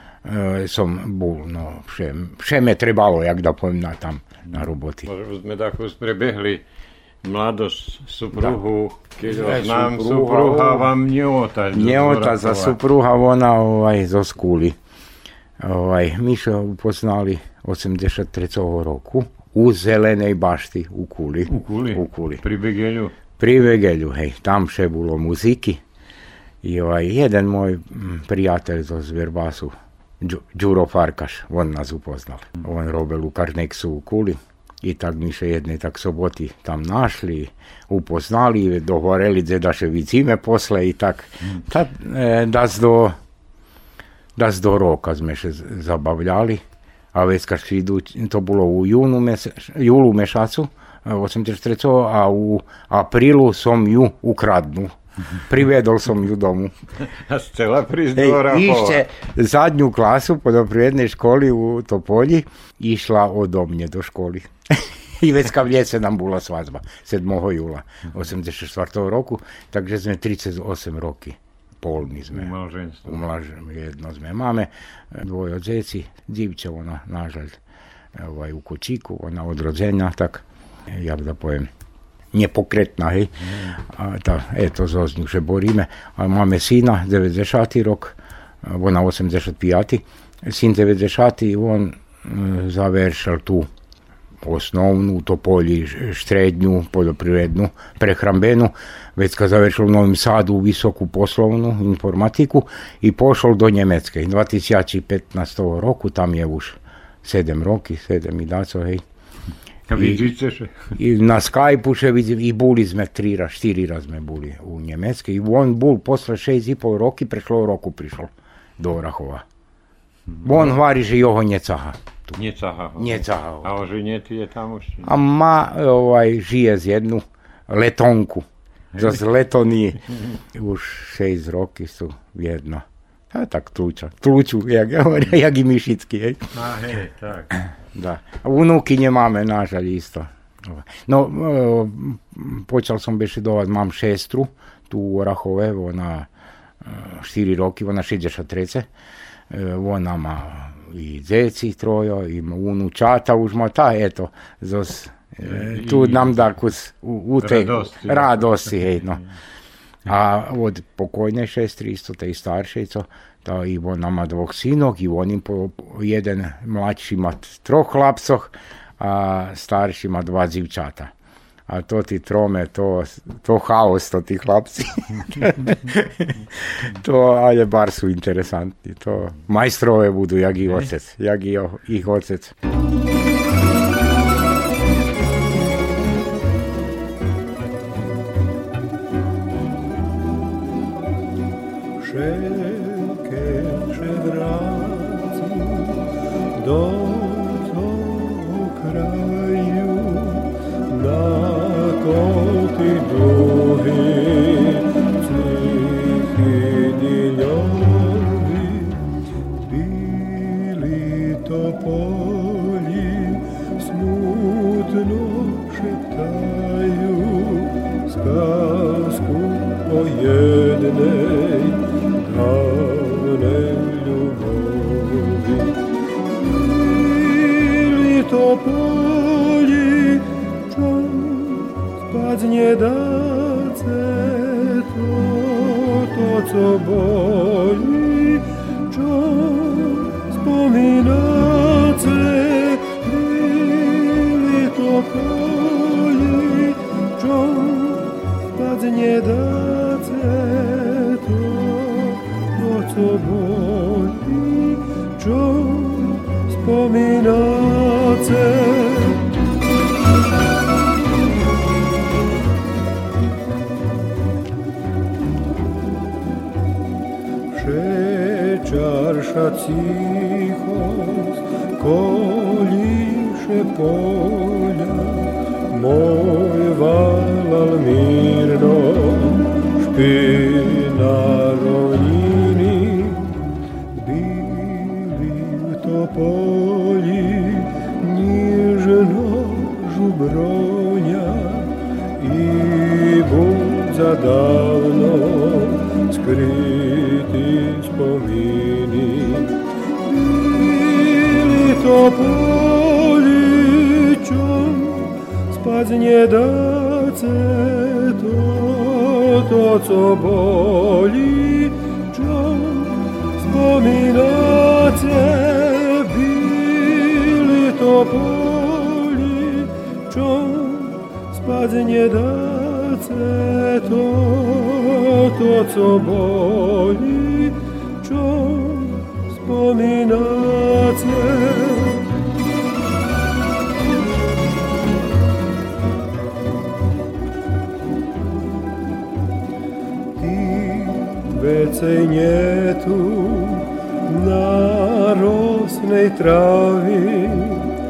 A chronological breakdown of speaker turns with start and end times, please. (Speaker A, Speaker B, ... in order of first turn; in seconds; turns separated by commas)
Speaker A: 0.2-5.1, Speaker B: 4.5-6.6, Speaker B: 7.2-12.8, Speaker A: 9.2-10.9, Speaker A: 11.7-14.8, Speaker A: 15.6-22.4, Speaker B: 21.5-23.1, Speaker A: 23.4-25.8, Speaker A: 26.6-43.2, Speaker A: 44.4-46.6, Speaker A: 47.1-56.7, Speaker B: 57.1-59.0, Speaker A: 58.1-72.5, Speaker B: 72.3-73.2, Speaker A: 73.0-77.6, Speaker A: 78.1-81.7, Speaker A: 82.3-93.7, Speaker B: 83.4-83.7, Speaker A: 94.4-109.0, Speaker B: 109.9-110.9, Speaker A: 109.9-110.2, Speaker A: 110.9-119.4, Speaker B: 120.4-120.7, Speaker A: 120.4-122.4, Speaker B: 122.4-125.1, Speaker A: 123.0-123.7, Speaker A: 125.0-136.6, Speaker B: 136.5-137.5, Speaker A: 137.9-146.3, Speaker A: 146.8-148.9, Speaker A: 149.5-159.2, Speaker B: 155.4-156.4, Speaker B: 157.4-159.2, Speaker A: 160.0-171.1, Speaker A: 171.7-182.5, Speaker C: 192.0-196.0, Speaker C: 196.6-209.0, Speaker C: 209.6-225.8, Speaker C: 226.5-259.2, Speaker C: 267.5-283.3, Speaker C: 283.9-332.1, Speaker C: 340.1-347.7